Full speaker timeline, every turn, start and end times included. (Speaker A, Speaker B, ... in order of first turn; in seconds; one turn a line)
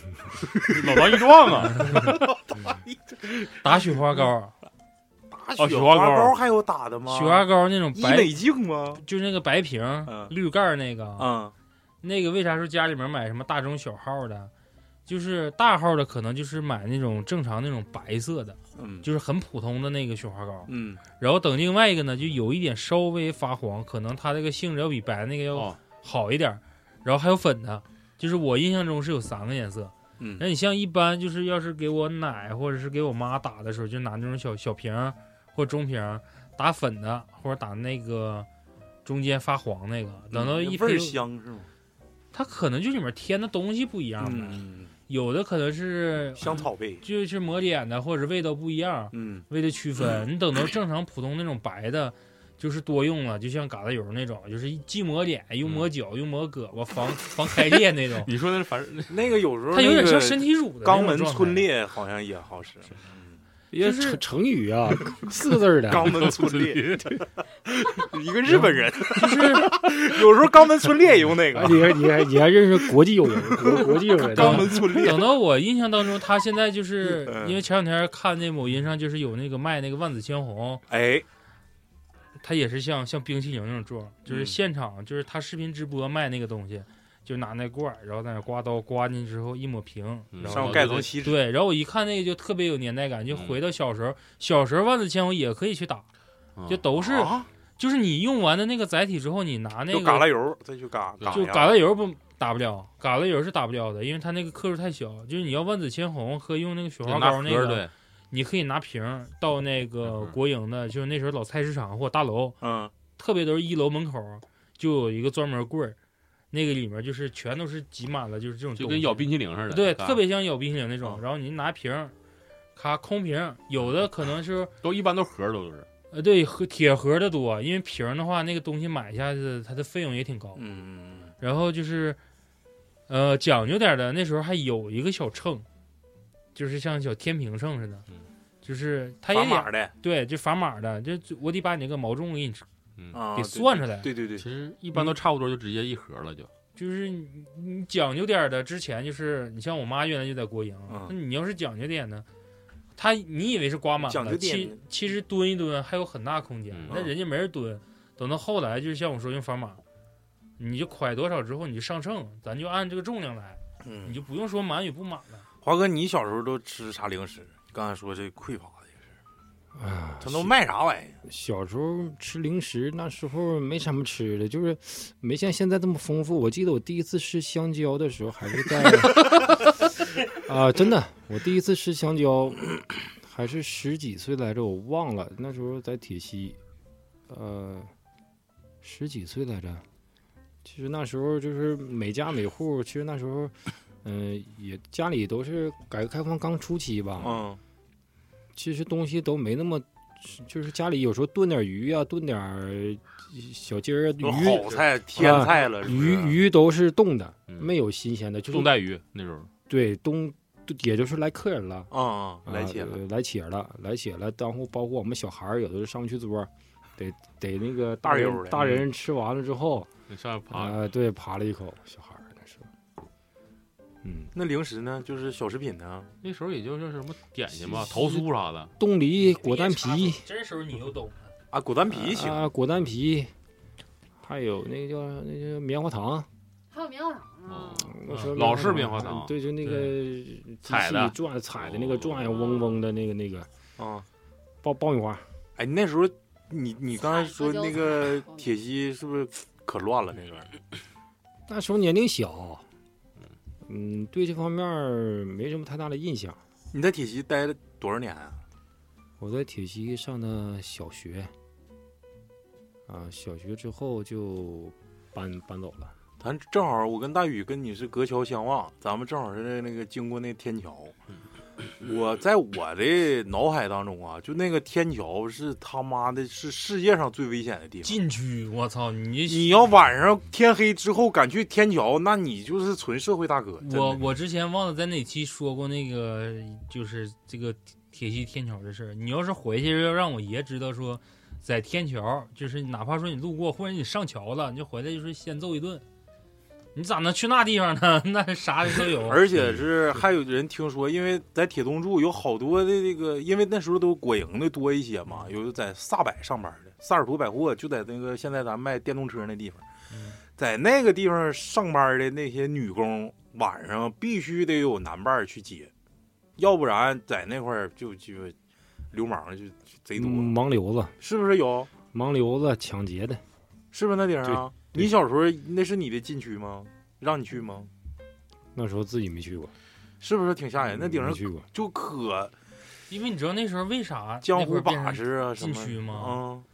Speaker A: 0.6-2.1
Speaker B: 0.6-3.9
Speaker C: 1.8-2.1
Speaker C: 3.6-4.5
Speaker B: 5.3-9.0
Speaker A: 5.6-6.4
Speaker C: 7.1-8.4
Speaker C: 9.0-11.3
Speaker B: 10.1-10.3
Speaker B: 11.2-11.5
Speaker C: 12.0-14.5
Speaker C: 15.1-38.5
Speaker B: 18.8-19.1
Speaker B: 20.7-21.0
Speaker A: 25.5-25.8
Speaker B: 30.2-30.5
Speaker C: 39.0-41.2
Speaker B: 40.3-41.7
Speaker C: 42.3-58.3
Speaker B: 44.2-44.9
Speaker B: 46.4-47.0
Speaker B: 49.1-49.5
Speaker A: 55.6-55.9
Speaker A: 58.2-59.2
Speaker B: 59.1-63.4
Speaker C: 59.7-61.7
Speaker D: 63.7-66.3
Speaker C: 63.8-64.2
Speaker B: 65.9-72.0
Speaker A: 66.2-67.1
Speaker C: 69.1-69.8
Speaker D: 71.5-74.9
Speaker B: 73.5-75.3
Speaker C: 74.3-80.8
Speaker B: 77.0-77.6
Speaker B: 80.9-81.3
Speaker C: 82.4-96.1
Speaker B: 84.3-84.6
Speaker A: 90.3-91.1
Speaker B: 90.5-91.4
Speaker A: 93.3-93.6
Speaker A: 96.6-96.9
Speaker C: 96.7-100.3
Speaker B: 97.0-97.5
Speaker B: 99.9-101.8
Speaker C: 101.3-112.6
Speaker A: 107.0-107.9
Speaker A: 110.0-110.4
Speaker B: 112.6-112.9
Speaker C: 113.2-116.0
Speaker C: 116.5-122.1
Speaker A: 118.8-120.2
Speaker C: 122.8-124.7
Speaker A: 124.8-125.9
Speaker C: 126.1-130.6
Speaker B: 130.6-131.3
Speaker C: 131.4-132.2
Speaker C: 133.1-135.7
Speaker C: 136.6-138.1
Speaker C: 138.6-142.7
Speaker B: 139.3-139.9
Speaker B: 143.1-144.5
Speaker C: 143.3-144.1
Speaker A: 144.4-146.5
Speaker C: 146.8-152.3
Speaker B: 150.9-151.2
Speaker C: 153.0-159.8
Speaker B: 154.0-154.8
Speaker A: 156.7-157.0
Speaker B: 156.9-157.1
Speaker C: 160.6-165.4
Speaker B: 163.8-164.2
Speaker B: 165.6-169.0
Speaker D: 169.8-170.5
Speaker B: 170.2-171.2
Speaker D: 171.2-186.6
Speaker D: 187.3-187.9
Speaker D: 188.8-189.8
Speaker D: 190.7-197.4
Speaker B: 197.2-197.6
Speaker D: 198.6-208.7
Speaker B: 204.2-206.4
Speaker A: 208.5-209.5
Speaker D: 209.7-211.9
Speaker B: 211.9-213.0
Speaker D: 212.4-219.9
Speaker B: 218.0-218.7
Speaker A: 220.1-220.8
Speaker D: 220.5-222.7
Speaker D: 224.0-224.3
Speaker B: 224.3-226.1
Speaker A: 226.2-228.7
Speaker D: 227.5-228.3
Speaker D: 228.8-230.2
Speaker C: 229.2-231.3
Speaker B: 231.5-232.4
Speaker D: 231.9-233.3
Speaker D: 234.2-236.3
Speaker E: 236.7-237.9
Speaker A: 237.5-240.0
Speaker D: 237.8-243.5
Speaker A: 240.6-242.7
Speaker B: 243.8-244.1
Speaker D: 244.6-245.2
Speaker B: 245.6-250.5
Speaker E: 246.9-248.5
Speaker D: 251.5-252.7
Speaker D: 253.6-256.4
Speaker B: 256.7-258.4
Speaker D: 259.2-261.3
Speaker D: 262.9-265.9
Speaker B: 266.2-270.9
Speaker B: 271.8-278.0
Speaker C: 277.8-279.7
Speaker B: 279.3-284.0
Speaker C: 283.6-295.8
Speaker C: 296.8-299.2
Speaker B: 298.8-309.6
Speaker C: 309.9-310.2
Speaker B: 310.4-315.7
Speaker B: 316.4-318.4
Speaker B: 318.9-320.3
Speaker D: 320.0-320.9
Speaker B: 321.0-321.7
Speaker D: 321.9-323.2
Speaker B: 323.7-327.7
Speaker D: 324.2-324.8
Speaker D: 328.6-329.5
Speaker B: 330.0-332.3
Speaker D: 330.7-331.5
Speaker C: 332.9-336.2
Speaker B: 334.2-336.5